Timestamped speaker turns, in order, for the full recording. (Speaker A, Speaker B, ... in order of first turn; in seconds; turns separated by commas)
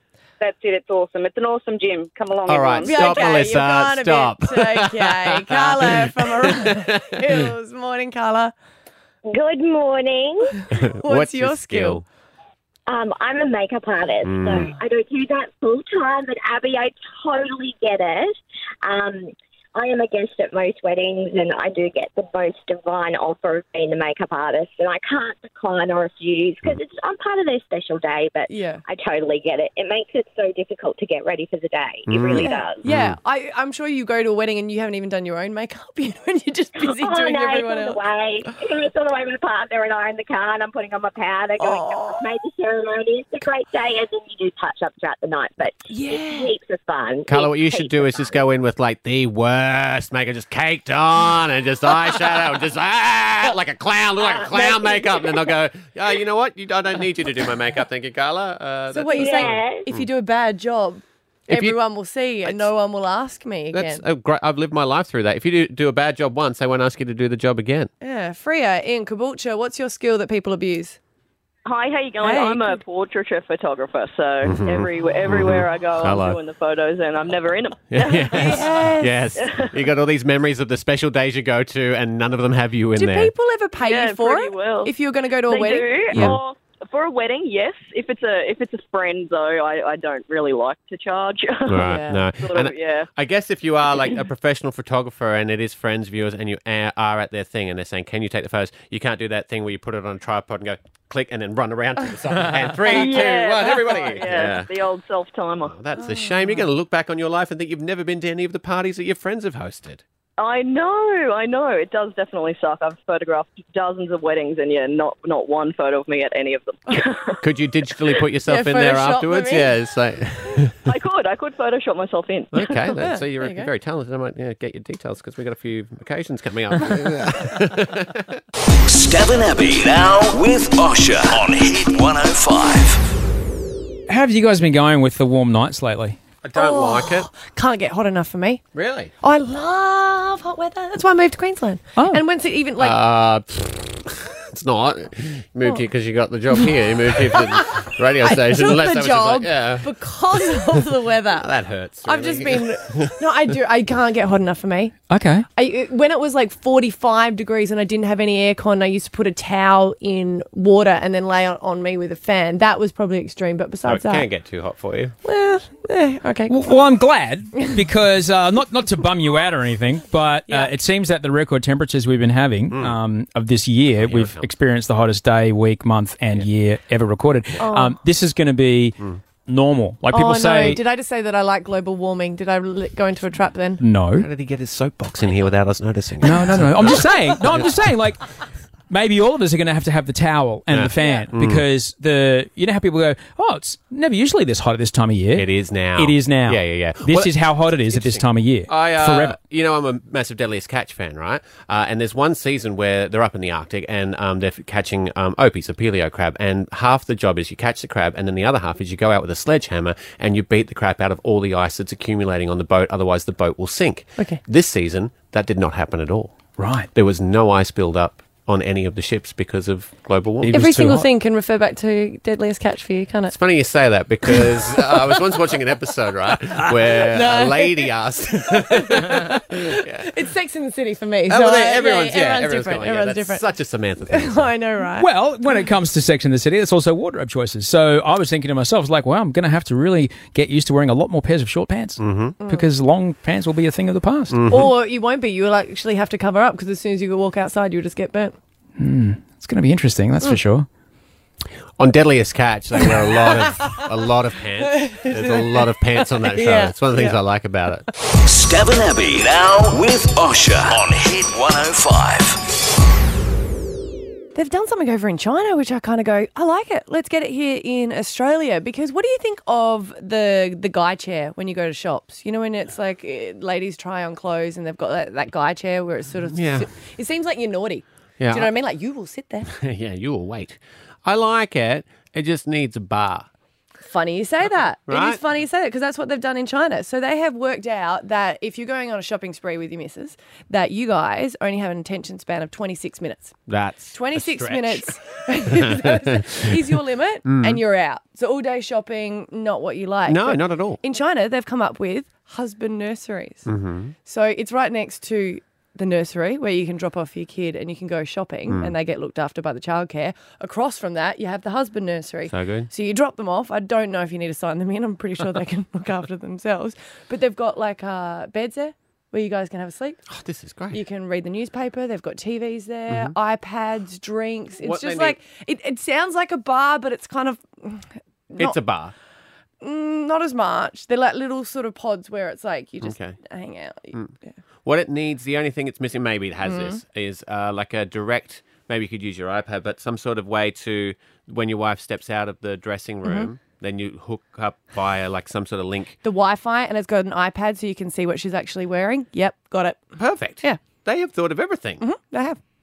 Speaker A: 0.4-3.1, Speaker B: 2.5-7.2, Speaker C: 2.8-8.5, Speaker D: 9.2-10.6, Speaker B: 10.7-12.0, Speaker C: 11.0-12.0, Speaker D: 12.9-32.8, Speaker B: 14.2-14.7, Speaker C: 28.5-28.8, Speaker B: 32.1-33.1, Speaker C: 32.3-38.5, Speaker D: 36.8-48.3, Speaker C: 41.6-42.2, Speaker C: 45.9-46.5, Speaker B: 47.3-60.1, Speaker D: 54.4-55.4, Speaker C: 58.9-64.0, Speaker D: 59.1-59.8, Speaker B: 61.5-61.8, Speaker B: 63.7-67.9, Speaker C: 68.0-71.0, Speaker E: 71.7-78.6, Speaker C: 72.2-72.8, Speaker B: 74.4-76.4, Speaker B: 77.9-83.3, Speaker C: 78.3-79.2, Speaker E: 79.4-79.8, Speaker C: 82.9-86.4, Speaker E: 83.8-93.1, Speaker B: 91.7-104.7, Speaker C: 91.8-92.2, Speaker E: 102.8-105.8, Speaker B: 105.6-110.0, Speaker C: 106.0-106.6, Speaker E: 110.4-117.4, Speaker B: 117.4-120.7, Speaker C: 118.5-119.7, Speaker E: 120.8-122.8, Speaker B: 122.5-128.4, Speaker C: 122.9-123.7, Speaker F: 128.8-133.0, Speaker G: 134.1-136.2, Speaker B: 136.4-137.3, Speaker C: 136.5-138.6, Speaker B: 138.7-139.1, Speaker C: 139.2-143.0, Speaker G: 142.0-142.2, Speaker B: 142.8-149.9, Speaker C: 147.3-151.5, Speaker B: 151.3-153.2, Speaker C: 152.0-154.9, Speaker G: 155.1-155.4, Speaker C: 155.5-164.3, Speaker B: 163.9-165.2, Speaker C: 165.2-166.6, Speaker G: 166.5-180.8, Speaker B: 172.7-173.0, Speaker B: 173.9-174.5, Speaker C: 177.6-178.0, Speaker C: 180.1-183.8, Speaker G: 183.8-184.3, Speaker B: 184.2-187.6, Speaker G: 186.2-188.2, Speaker G: 188.9-199.3, Speaker B: 190.7-191.6, Speaker C: 191.0-191.3, Speaker B: 195.3-220.9, Speaker G: 216.6-216.9, Speaker G: 220.4-221.1, Speaker C: 220.5-223.3, Speaker B: 223.3-230.1, Speaker C: 227.0-227.9, Speaker C: 228.6-233.4, Speaker B: 231.3-234.5, Speaker C: 234.1-235.1, Speaker G: 235.0-244.4, Speaker B: 242.0-242.4, Speaker C: 242.4-242.7, Speaker B: 244.3-244.7, Speaker C: 244.5-248.3, Speaker G: 248.8-250.7, Speaker B: 251.8-257.8, Speaker C: 253.2-253.8, Speaker C: 254.7-257.2, Speaker F: 258.1-262.4, Speaker C: 264.3-279.5, Speaker B: 276.3-276.7, Speaker B: 278.2-278.5, Speaker B: 279.5-283.3, Speaker C: 283.8-293.3, Speaker B: 284.9-285.2, Speaker B: 293.5-296.7, Speaker C: 293.9-303.4, Speaker B: 297.2-297.6, Speaker B: 300.1-300.8, Speaker B: 303.4-303.9, Speaker C: 304.1-320.0, Speaker B: 308.5-308.7, Speaker B: 312.3-312.7, Speaker B: 320.1-320.8, Speaker C: 320.7-328.6, Speaker B: 322.9-323.1, Speaker B: 324.6-325.2, Speaker B: 328.4-328.9, Speaker C: 329.6-334.4, Speaker B: 332.8-333.2, Speaker B: 333.9-346.0, Speaker C: 336.4-336.8, Speaker C: 346.0-349.8, Speaker B: 350.0-351.8, Speaker C: 351.8-352.4